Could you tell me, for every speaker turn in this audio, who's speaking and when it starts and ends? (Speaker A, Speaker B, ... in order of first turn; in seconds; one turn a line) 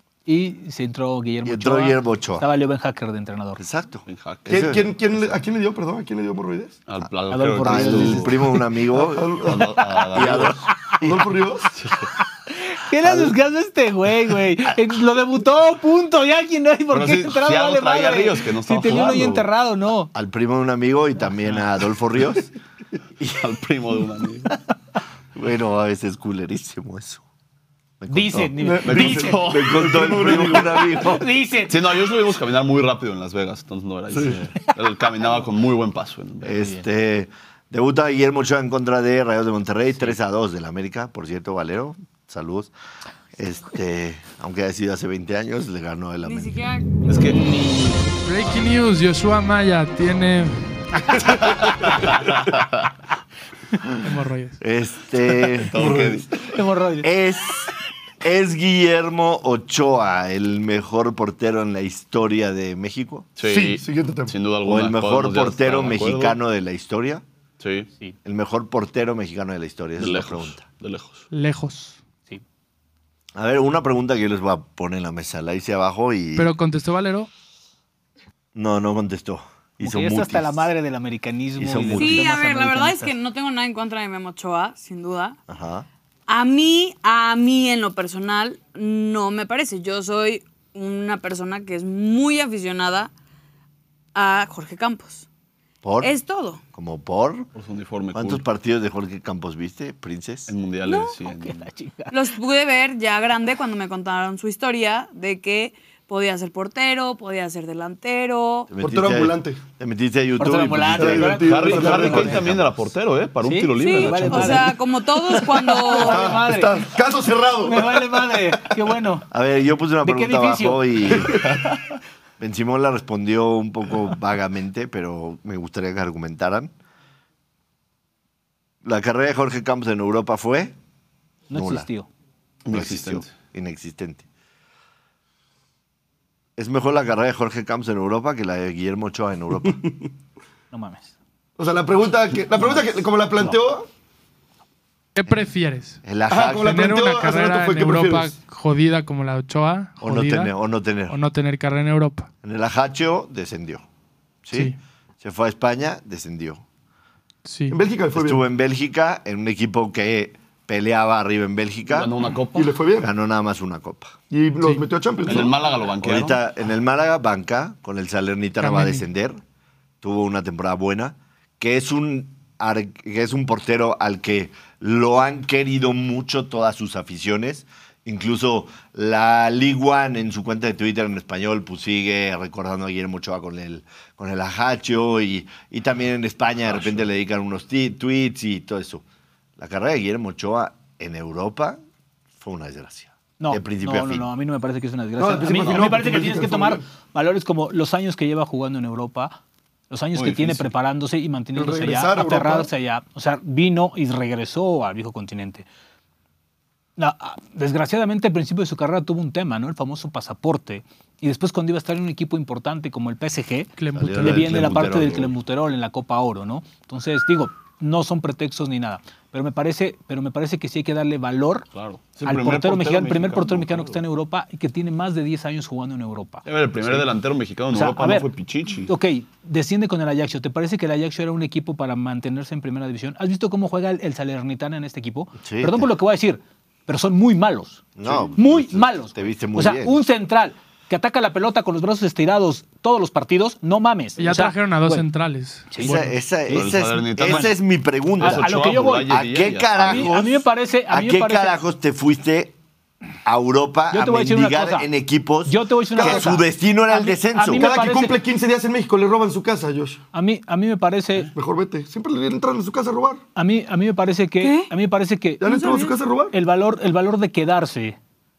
Speaker A: 0.3-3.6
Speaker B: 1.4-2.5
Speaker B: 3.6-5.2
Speaker C: 4.1-4.5
Speaker D: 4.5-6.8
Speaker C: 6.9-8.3
Speaker A: 7.3-8.4
Speaker B: 7.6-9.5
Speaker D: 9.0-9.7
Speaker C: 9.4-10.6
Speaker B: 10.1-11.3
Speaker D: 11.0-11.7
Speaker C: 11.8-12.0
Speaker A: 12.5-20.1
Speaker B: 13.0-13.3
Speaker C: 16.9-19.3
Speaker B: 18.9-19.5
Speaker B: 20.1-22.5
Speaker B: 23.2-23.5
Speaker C: 23.3-24.6
Speaker B: 25.4-27.2
Speaker B: 28.0-31.3
Speaker A: 28.1-31.8
Speaker D: 28.6-30.8
Speaker C: 28.8-29.7
Speaker C: 31.7-36.6
Speaker B: 36.4-42.7
Speaker B: 43.4-46.6
Speaker E: 46.2-46.9
Speaker C: 47.1-47.4
Speaker A: 47.5-47.9
Speaker F: 48.2-50.6
Speaker F: 54.0-54.6
Speaker B: 54.6-56.0
Speaker C: 55.6-56.4
Speaker D: 55.8-56.5
Speaker A: 56.5-57.1
Speaker B: 57.0-63.3
Speaker C: 63.4-66.4
Speaker D: 63.5-64.3
Speaker B: 64.6-67.2
Speaker C: 67.6-67.9
Speaker B: 68.2-70.7
Speaker C: 70.0-71.3
Speaker F: 71.3-72.0
Speaker B: 73.4-76.5
Speaker F: 76.4-77.3
Speaker B: 78.5-80.7
Speaker A: 79.8-83.1
Speaker B: 81.6-82.4
Speaker E: 82.0-85.4
Speaker B: 85.5-85.9
Speaker E: 86.3-93.1
Speaker E: 94.2-95.2
Speaker B: 95.8-96.1
Speaker E: 96.0-96.6
Speaker B: 96.7-97.5
Speaker C: 97.5-98.5
Speaker B: 98.1-100.5
Speaker C: 100.5-101.6
Speaker E: 100.8-101.1
Speaker A: 101.2-102.2
Speaker E: 102.1-108.7
Speaker B: 108.7-111.4
Speaker D: 108.8-109.6
Speaker A: 110.4-112.4
Speaker D: 111.0-112.5
Speaker C: 111.5-114.7
Speaker B: 112.1-112.7
Speaker A: 113.4-114.8
Speaker E: 113.8-116.4
Speaker A: 115.3-116.9
Speaker D: 115.9-118.8
Speaker A: 117.6-119.3
Speaker B: 119.3-121.5
Speaker A: 120.0-121.1
Speaker B: 122.4-126.7
Speaker B: 128.8-130.8
Speaker A: 131.5-132.1
Speaker B: 131.5-131.9
Speaker C: 132.7-133.3
Speaker B: 132.7-134.2
Speaker B: 136.6-139.8
Speaker A: 140.7-141.1
Speaker D: 141.6-143.9
Speaker F: 145.2-146.0
Speaker B: 146.0-146.8
Speaker D: 146.3-148.3
Speaker F: 146.6-150.5
Speaker B: 150.0-151.2
Speaker F: 151.1-152.3
Speaker B: 152.4-153.8
Speaker B: 154.5-156.6
Speaker F: 157.4-157.8
Speaker D: 157.7-158.4
Speaker B: 158.1-162.1
Speaker C: 161.9-162.7
Speaker D: 162.6-163.1
Speaker B: 163.0-164.2
Speaker D: 164.3-165.5
Speaker C: 165.2-166.4
Speaker B: 166.0-169.4
Speaker F: 168.6-169.0
Speaker B: 170.0-189.0
Speaker B: 189.6-191.8
Speaker B: 192.4-194.3
Speaker A: 193.4-199.4
Speaker D: 195.2-196.8
Speaker A: 199.9-205.7
Speaker C: 200.2-200.7
Speaker D: 201.6-202.7
Speaker A: 207.0-221.7
Speaker F: 213.8-214.6
Speaker B: 213.9-215.3
Speaker C: 221.7-224.0
Speaker A: 222.2-227.1
Speaker C: 226.4-228.9
Speaker A: 227.7-228.3
Speaker A: 228.9-237.8
Speaker B: 235.4-235.9
Speaker B: 238.0-240.0
Speaker A: 238.4-245.1
Speaker F: 244.2-246.1
Speaker A: 245.7-246.7
Speaker B: 245.8-252.6
Speaker C: 246.5-247.5
Speaker C: 248.2-250.1
Speaker A: 248.2-249.1
Speaker A: 249.8-251.6
Speaker B: 253.2-257.7
Speaker A: 253.9-254.9
Speaker A: 255.4-258.2
Speaker D: 256.0-256.4
Speaker D: 257.5-260.0
Speaker A: 260.1-261.3
Speaker D: 261.3-263.2
Speaker A: 263.4-268.0
Speaker E: 264.4-264.7
Speaker D: 265.4-266.3
Speaker E: 265.5-265.9